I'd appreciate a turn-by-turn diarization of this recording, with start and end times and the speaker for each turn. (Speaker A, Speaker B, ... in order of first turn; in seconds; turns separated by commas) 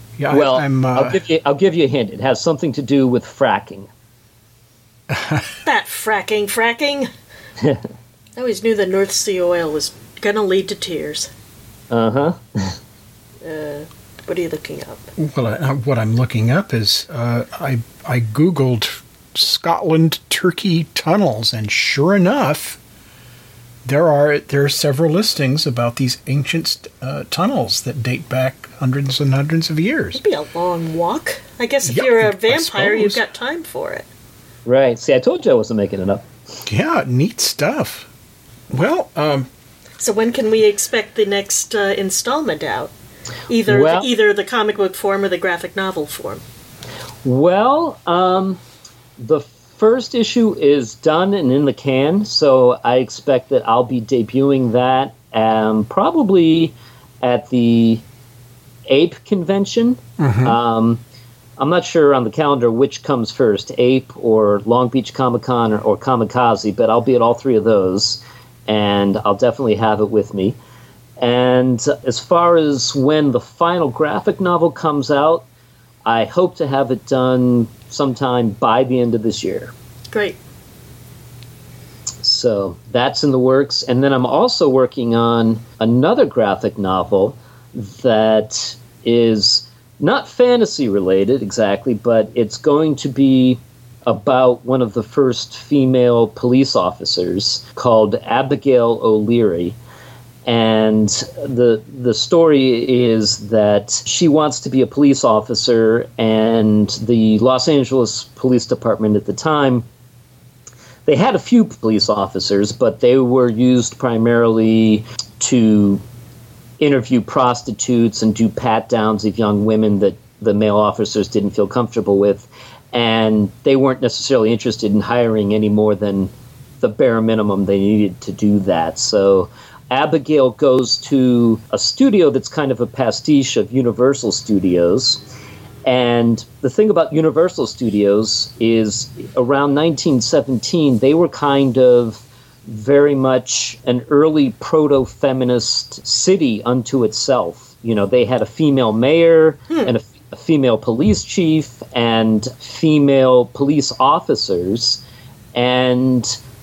Speaker A: 0.2-1.2, Speaker B: 0.3-3.9, Speaker A: 5.1-5.5, Speaker C: 5.7-7.1, Speaker C: 8.4-11.3, Speaker B: 11.9-12.8, Speaker C: 13.4-15.1, Speaker A: 15.2-22.8, Speaker A: 23.8-30.2, Speaker C: 30.2-34.1, Speaker A: 31.9-33.2, Speaker B: 34.6-36.3, Speaker A: 36.6-38.1, Speaker A: 38.7-39.5, Speaker C: 40.0-42.9, Speaker C: 43.5-46.4, Speaker B: 43.7-44.1, Speaker B: 47.2-48.6, Speaker B: 49.2-58.0, Speaker B: 58.9-61.0, Speaker A: 60.2-60.6, Speaker B: 61.6-70.6, Speaker B: 71.2-75.5, Speaker B: 76.1-79.7, Speaker C: 80.1-80.4, Speaker B: 82.2-99.8, Speaker B: 100.5-109.8, Speaker B: 111.1-116.0, Speaker B: 116.8-135.2, Speaker B: 135.8-155.0, Speaker B: 155.5-156.4